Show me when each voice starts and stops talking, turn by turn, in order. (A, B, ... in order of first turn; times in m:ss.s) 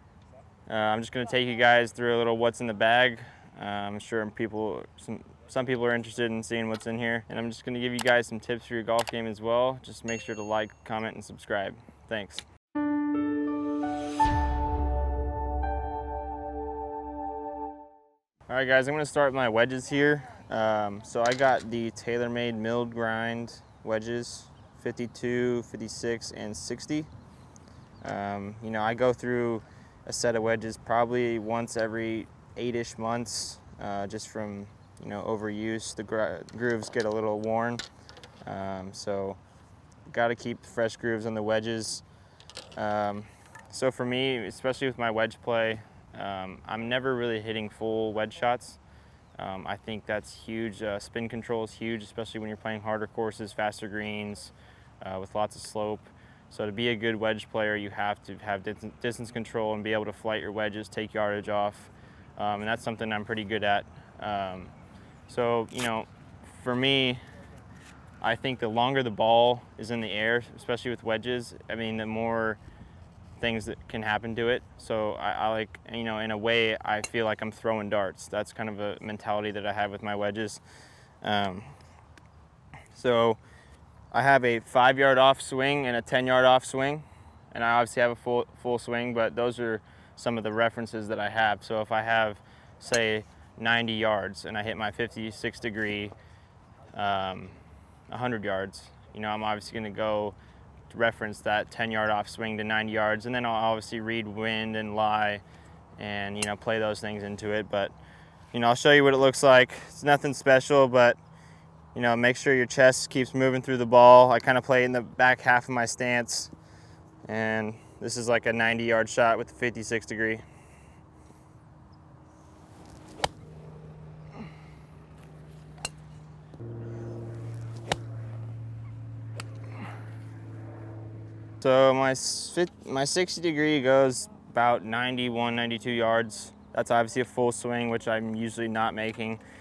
0:00.7-0:12.5 A
0:18.5-0:27.1 A
0:28.0-0:37.8 A
0:38.4-0:39.4 A
0:40.1-0:42.0 A
0:42.8-0:48.8 A
0:49.4-1:04.7 A
1:05.3-1:07.2 A
1:08.2-1:12.6 A
1:13.4-1:20.6 A
1:21.2-1:21.8 A
1:22.9-1:23.4 A
1:24.1-1:36.1 A
1:36.9-1:37.6 A
1:38.1-1:40.4 A
1:40.9-1:45.4 A
1:46.0-1:47.9 A
1:48.5-1:51.2 A
1:51.9-1:56.5 A
1:57.2-2:00.4 A
2:11.6-2:19.4 A